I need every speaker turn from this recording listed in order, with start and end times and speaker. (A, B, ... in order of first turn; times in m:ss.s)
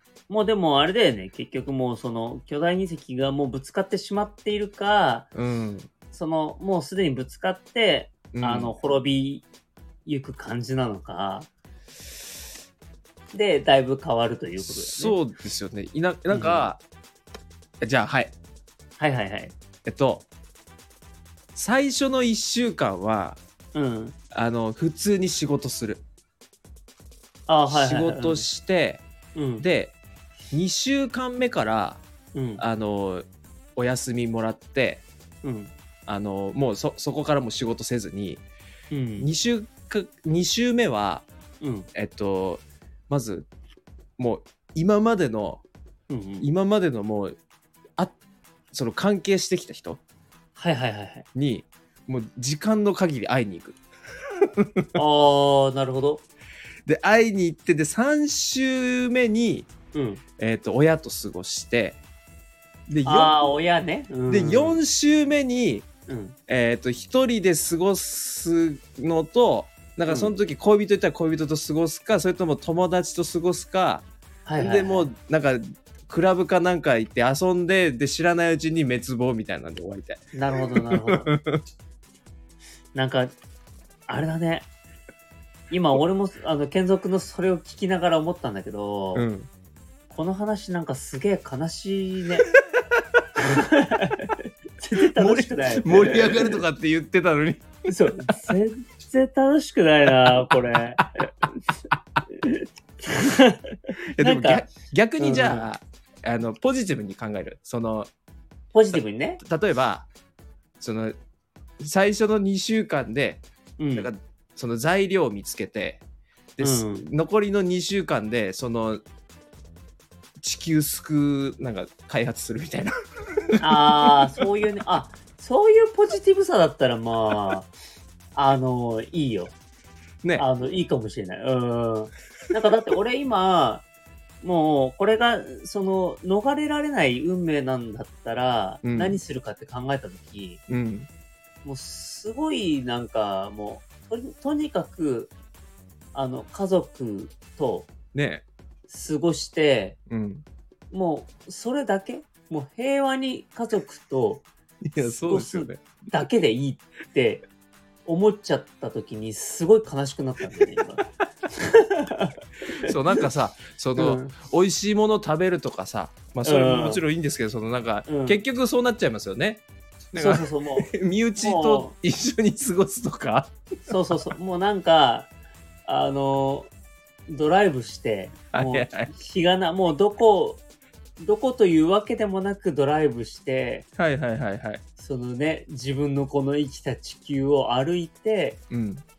0:00.3-0:05.3 A
0:05.3-0:05.9 B
0:06.1-0:09.5 A
0:08.3-0:08.7 B
0:10.1-0:11.5 A
0:13.3-0:15.2 A
0:14.6-0:16.8 B
0:16.3-0:16.7 A
0:17.8-0:18.3 B
0:19.0-0:19.5 A
0:19.8-0:20.3 B
0:21.5-0:23.4 B
0:23.7-0:24.2 A
0:24.3-0:26.0 B
0:27.5-0:28.5 A
0:27.7-0:29.0 B
0:29.3-0:29.7 A
0:29.6-0:30.0 B
0:30.5-0:32.0 B
0:32.3-0:32.6 A
0:32.6-0:35.0 B
0:35.4-0:35.7 A
0:36.1-0:38.4 B
0:38.9-0:39.3 A
0:39.2-0:41.2 B
0:41.6-0:41.9 A
0:42.0-0:43.5 B
0:44.2-0:45.6 B
0:46.1-0:46.5 A
0:46.4-0:47.4 B
0:48.7-0:50.0 B
0:50.6-0:51.3 A
0:51.3-0:53.8 B
0:54.6-0:54.8 B
0:55.0-0:56.2 A
0:56.9-0:59.7 B
0:59.9-1:00.2 A
1:00.4-1:02.0 B
1:02.9-1:03.3 B
1:03.0-1:04.8 A
1:04.3-1:05.9 B
1:06.1-1:06.4 A
1:06.5-1:14.0 B
1:10.1-1:10.3 A
1:14.5-1:15.1 A
1:14.6-1:20.2 B
1:20.3-1:21.3 A
1:20.9-1:21.6 B
1:22.9-1:23.3 A
1:24.1-1:24.7 A
1:25.7-1:29.3 A
1:29.2-1:29.5 B
1:30.1-1:32.5 A
1:33.4-1:36.6 A
1:35.0-1:37.7 B
1:37.9-1:41.0 A
1:42.4-1:45.7 A
1:44.2-1:48.1 B
1:48.7-1:49.4 A
1:49.4-1:50.1 B
1:50.8-1:51.2 B
1:51.8-1:53.4 B
1:53.8-1:54.1 A
1:54.0-1:56.0 B
1:56.6-1:59.0 B
1:56.6-1:57.0 A
2:00.4-2:02.9 B
2:03.5-2:04.1 B
2:03.6-2:07.7 A
2:08.3-2:09.5 A
2:10.4-2:13.8 A
2:14.4-2:20.6 A
2:18.8-2:19.2 B
2:20.7-2:21.1 B
2:21.6-2:25.3 A
2:26.1-2:27.9 A
2:28.1-2:28.4 B
2:28.9-2:30.0 A
2:30.1-2:30.4 B
2:30.9-2:34.4 A
2:34.9-2:35.8 B
2:35.0-2:37.4 A
2:38.0-2:42.9 A
2:42.8-2:53.5 B
2:44.0-2:44.3 A
2:46.4-2:47.0 A
2:48.0-2:48.4 A
2:50.2-2:52.0 A
2:53.8-2:55.3 A
2:55.8-2:56.7 A
2:57.3-3:00.6 A
2:58.5-2:59.1 B
3:01.2-3:03.8 A
3:04.0-3:04.8 B
3:05.0-3:08.6 A
3:08.7-3:09.0 B